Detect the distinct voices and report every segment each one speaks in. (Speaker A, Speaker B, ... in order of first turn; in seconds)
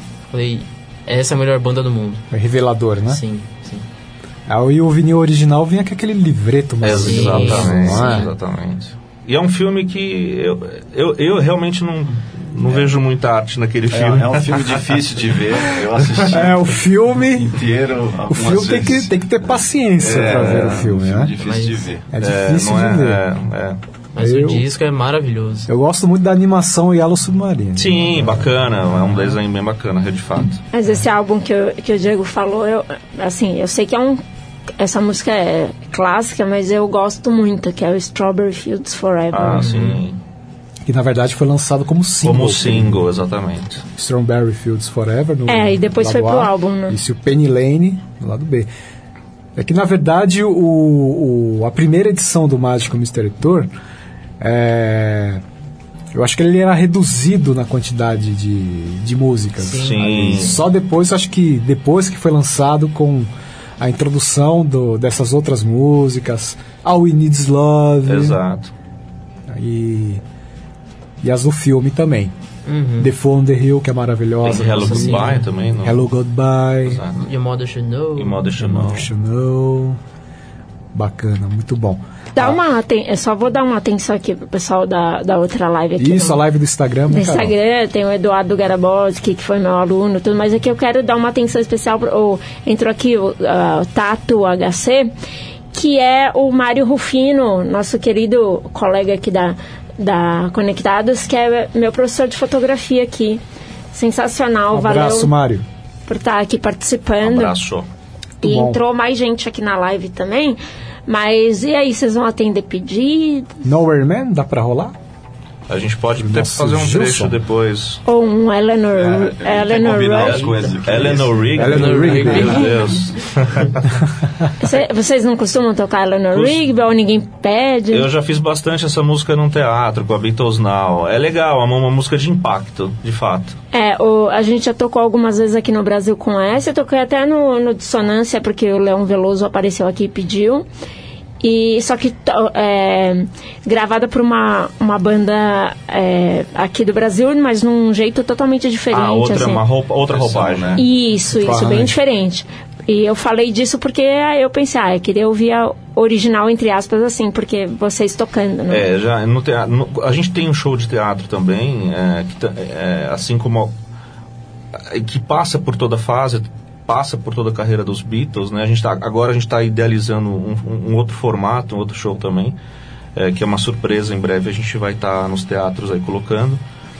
Speaker A: 0.3-2.2, 3.1-3.8, 6.9-8.3, 21.4-21.9, 24.1-25.7, 39.5-40.0, 59.6-60.5, 72.7-73.1, 74.5-75.5, 77.2-78.6, 121.7-123.0
Speaker B: 2.3-3.2, 4.5-8.3, 16.3-17.6, 18.3-21.3, 22.1-23.2, 24.2-24.7, 25.7-28.9, 40.8-43.1, 44.0-48.7, 49.5-53.7, 54.4-55.4, 56.1-68.4, 69.5-70.2, 71.2-72.3, 73.0-77.0, 78.5-80.0, 80.9-82.6, 86.0-87.5, 104.7-105.6, 108.4-108.8, 113.6-114.9, 116.1-117.4, 121.5-122.7, 151.3-151.9
Speaker C: 6.8-14.9, 22.2-23.8, 27.8-30.6, 39.3-40.2, 42.2-43.8, 59.7-60.6, 68.0-68.7, 74.4-76.0, 76.8-77.2, 78.2-79.1, 107.2-107.8, 115.7-118.0, 120.1-123.7, 126.3-126.6, 127.9-133.6, 148.9-150.8, 158.7-163.7, 164.8-172.6, 173.2-176.6
Speaker D: 12.6-13.0, 13.9-16.7, 17.3-22.1, 118.9-121.8, 150.1-150.8
Speaker E: 30.7-34.2, 34.8-39.8, 45.5-47.0, 82.3-86.4, 87.1-95.1, 95.7-103.4, 103.9-105.3, 106.1-107.5, 108.4-113.5, 118.0-120.5, 124.6-128.1, 133.7-140.7, 141.4-149.6, 150.8-158.9